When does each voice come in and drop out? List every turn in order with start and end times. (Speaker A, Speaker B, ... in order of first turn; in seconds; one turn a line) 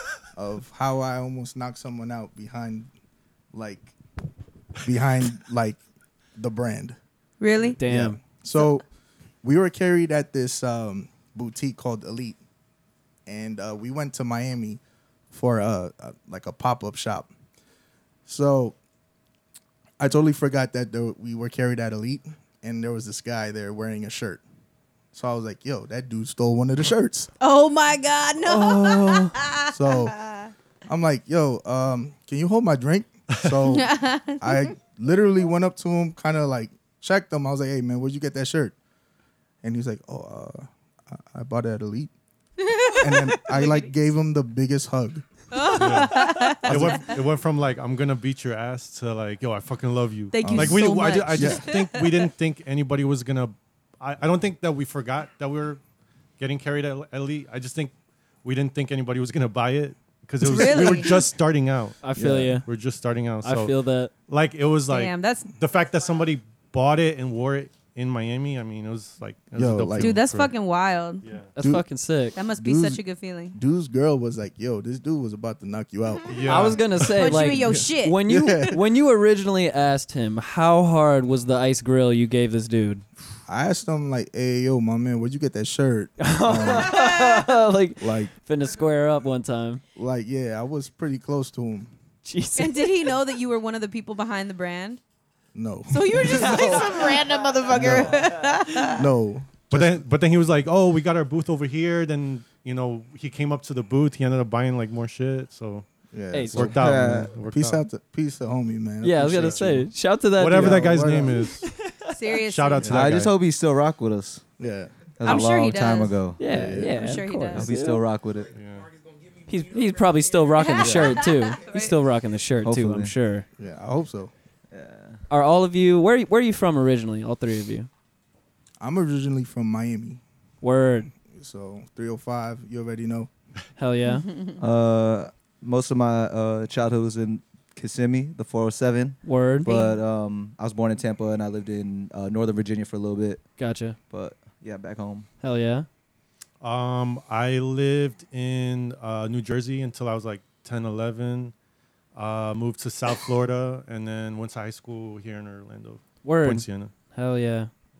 Speaker A: 0.3-2.9
Speaker A: 3.5-3.9
Speaker A: 4.8-5.8
Speaker A: 6.3-7.0
Speaker B: 7.4-7.8
Speaker C: 7.8-8.2
Speaker A: 7.8-8.8
Speaker A: 9.4-12.4
Speaker A: 13.2-14.8
Speaker A: 15.3-17.3
Speaker A: 18.2-18.8
Speaker A: 20.0-24.4
Speaker A: 25.1-27.3
Speaker B: 27.4-30.5
Speaker A: 28.7-30.2
Speaker A: 30.9-38.7
Speaker B: 33.7-34.7
Speaker A: 39.6-42.1
Speaker B: 42.6-43.9
Speaker A: 43.0-45.2
Speaker B: 45.5-47.0
Speaker D: 45.7-55.8
Speaker A: 46.6-47.1
Speaker B: 50.3-52.3
Speaker A: 50.4-51.7
Speaker D: 56.4-62.1
Speaker B: 60.4-61.3
Speaker A: 60.7-61.0
Speaker C: 62.0-62.7
Speaker A: 62.1-62.6
Speaker D: 62.6-63.7
Speaker C: 63.4-64.1
Speaker D: 64.3-70.5
Speaker B: 64.9-65.5
Speaker A: 69.5-70.2
Speaker B: 70.0-71.2
Speaker C: 71.5-72.4
Speaker A: 71.6-71.9
Speaker B: 72.3-73.5
Speaker A: 72.5-73.0
Speaker A: 73.5-76.8
Speaker D: 76.3-77.5
Speaker C: 76.5-83.0
Speaker B: 77.2-78.2
Speaker A: 77.7-78.8
Speaker A: 83.5-87.1
Speaker C: 86.2-89.8
Speaker B: 86.9-87.3
Speaker A: 88.0-88.3
Speaker A: 90.0-91.9
Speaker C: 92.2-92.9
Speaker B: 92.6-95.0
Speaker A: 95.5-98.2
Speaker B: 95.9-99.1
Speaker A: 98.9-100.0
Speaker D: 99.7-105.9
Speaker A: 106.1-109.9
Speaker C: 106.3-106.7
Speaker D: 106.5-107.8
Speaker E: 106.8-107.3
Speaker C: 109.0-111.0
Speaker D: 110.4-111.7
Speaker A: 110.5-111.5
Speaker B: 112.1-113.0
Speaker D: 112.4-113.3
Speaker E: 112.9-114.5
Speaker A: 114.6-114.9
Speaker E: 115.2-116.4
Speaker B: 115.2-116.2
Speaker C: 116.4-118.0
Speaker A: 116.5-117.0
Speaker B: 116.8-117.9
Speaker E: 117.5-118.5
Speaker D: 118.5-118.9
Speaker C: 119.5-123.5
Speaker B: 120.6-121.9
Speaker E: 120.8-121.2
Speaker E: 122.6-123.1
Speaker A: 123.6-124.3
Speaker E: 124.7-125.2
Speaker C: 125.3-127.9
Speaker A: 128.8-130.2
Speaker C: 130.6-131.1
Speaker A: 131.3-133.3
Speaker C: 133.8-134.2
Speaker B: 134.1-134.5
Speaker E: 134.6-143.5
Speaker C: 139.2-139.7
Speaker B: 139.6-140.0
Speaker C: 143.6-143.9
Speaker E: 144.1-145.3
Speaker C: 145.4-145.9
Speaker D: 146.6-151.5
Speaker D: 152.1-156.9
Speaker C: 156.2-157.7